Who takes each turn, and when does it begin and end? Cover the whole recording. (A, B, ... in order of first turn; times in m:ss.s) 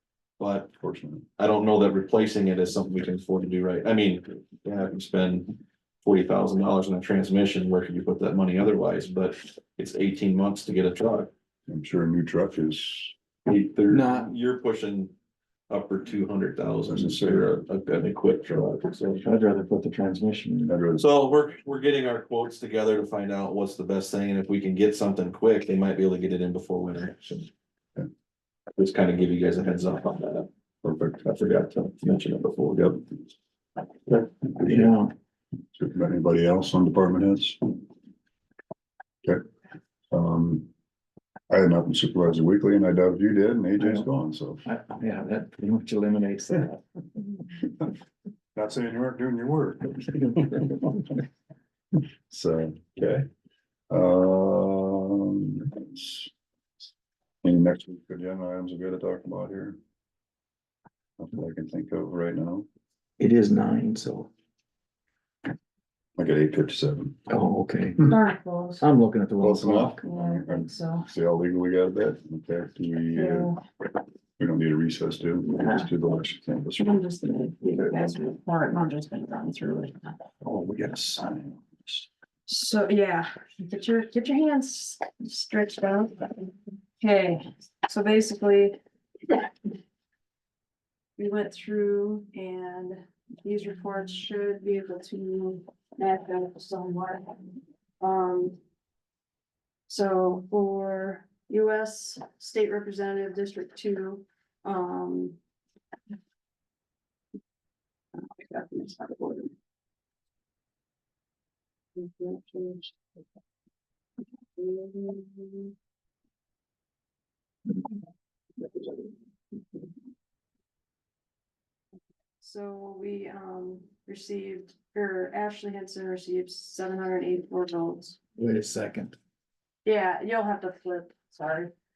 0:00.4-0:00.7 A
0:00.8-0:01.2 B
0:01.4-0:11.3 A
0:11.7-0:13.2 B
0:13.5-0:15.1 A
0:13.9-0:14.3 C
0:15.7-0:19.2 A
0:16.9-0:17.5 B
0:19.2-0:20.7 C
0:20.7-0:21.1 B
0:21.0-0:27.5 A
0:28.8-0:30.5 A
0:30.8-0:31.2 B
0:31.2-0:33.0 A
0:32.7-0:33.0 B
0:34.1-0:34.9 B
0:34.6-0:35.1 C
0:35.8-0:37.8 B
0:40.1-0:40.7 B
0:41.5-0:44.6 B
0:43.8-0:44.1 C
0:44.6-0:46.8 C
0:48.6-0:50.8 B
0:52.3-0:53.3 B
0:53.9-0:56.3 B
0:57.4-0:59.8 B
1:01.2-1:02.7 B
1:03.2-1:04.3 C
1:06.2-1:07.2 B
1:07.3-1:08.0 C
1:08.0-1:08.8 D
1:08.8-1:10.0 C
1:09.4-1:13.5 B
1:10.0-1:11.1 D
1:13.1-1:13.6 D
1:14.4-1:17.0 B
1:15.6-1:15.9 D
1:16.8-1:20.2 D
1:20.4-1:22.1 B
1:22.5-1:28.8 D
1:31.2-1:38.6 D
1:39.9-1:45.4 D
1:48.2-1:49.5 D
1:52.0-1:52.9 D
1:54.6-1:55.7 D
2:02.4-2:08.2 D
2:08.4-2:09.2 C
2:09.8-2:11.7 D